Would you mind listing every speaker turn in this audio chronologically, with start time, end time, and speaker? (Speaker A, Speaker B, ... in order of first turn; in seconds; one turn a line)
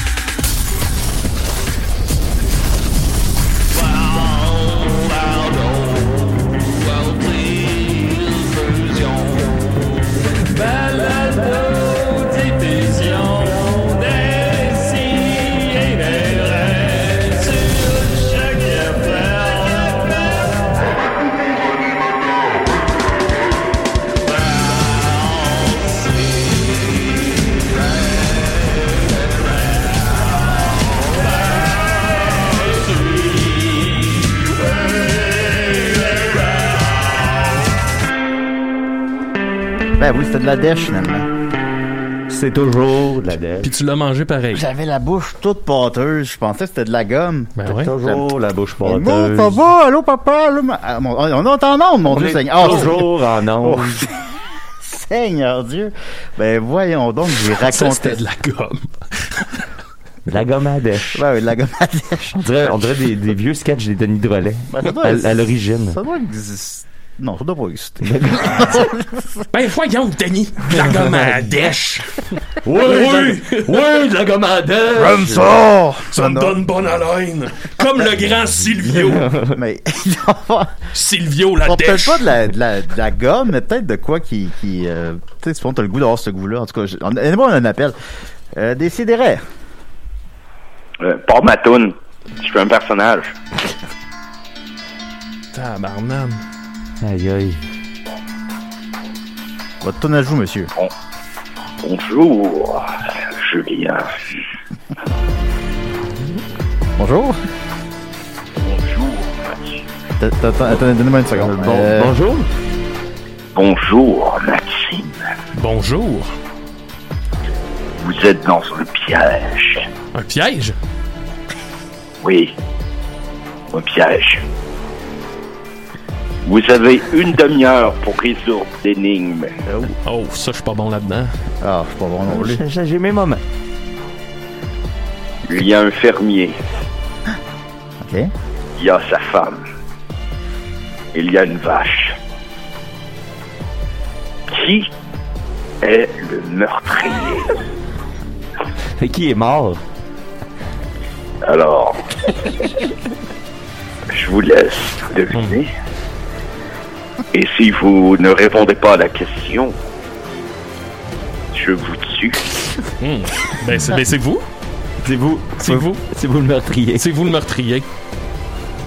Speaker A: 40.0-41.3
Speaker B: 42.3-43.7
Speaker C: 43.6-44.6
Speaker A: 44.5-48.3
Speaker C: 47.6-47.9
Speaker B: 47.6-49.6
Speaker A: 48.8-54.2
Speaker B: 52.1-54.0
Speaker C: 52.6-52.9
Speaker A: 54.8-58.2
Speaker C: 57.5-59.6
Speaker B: 60.3-61.2
Speaker A: 61.1-62.4
Speaker B: 62.4-66.0
Speaker A: 64.7-69.5
Speaker B: 68.0-68.8
Speaker C: 69.5-74.1
Speaker B: 70.7-71.5
Speaker B: 72.6-75.5
Speaker C: 75.0-75.5
Speaker A: 75.1-76.6
Speaker C: 76.1-79.3
Speaker B: 78.9-79.6
Speaker A: 79.5-80.8
Speaker C: 80.9-82.3
Speaker A: 81.6-87.9
Speaker A: 88.5-89.4
Speaker D: 91.0-93.3
Speaker C: 95.5-96.4
Speaker B: 97.0-97.6
Speaker A: 99.8-100.7
Speaker D: 101.8-104.1
Speaker A: 107.0-107.4
Speaker D: 108.6-109.8
Speaker A: 110.2-112.1
Speaker B: 111.3-112.5
Speaker D: 113.5-115.2
Speaker C: 115.5-116.3
Speaker D: 118.0-119.9
Speaker C: 120.1-120.8
Speaker D: 122.2-122.5
Speaker D: 123.7-124.4
Speaker D: 126.4-129.5
Speaker C: 130.0-131.3
Speaker A: 131.6-132.6
Speaker B: 132.3-133.4
Speaker D: 135.4-136.5
Speaker A: 138.0-138.3
Speaker D: 138.8-139.6
Speaker D: 141.1-142.1
Speaker D: 144.5-144.9
Speaker D: 145.8-147.6
Speaker B: 149.0-149.8
Speaker D: 151.4-152.5
Speaker D: 154.1-155.7
Speaker C: 155.3-155.6
Speaker D: 157.3-159.7
Speaker D: 161.5-162.6
Speaker C: 163.0-164.4
Speaker B: 165.0-167.0
Speaker C: 165.6-166.0
Speaker C: 167.0-167.8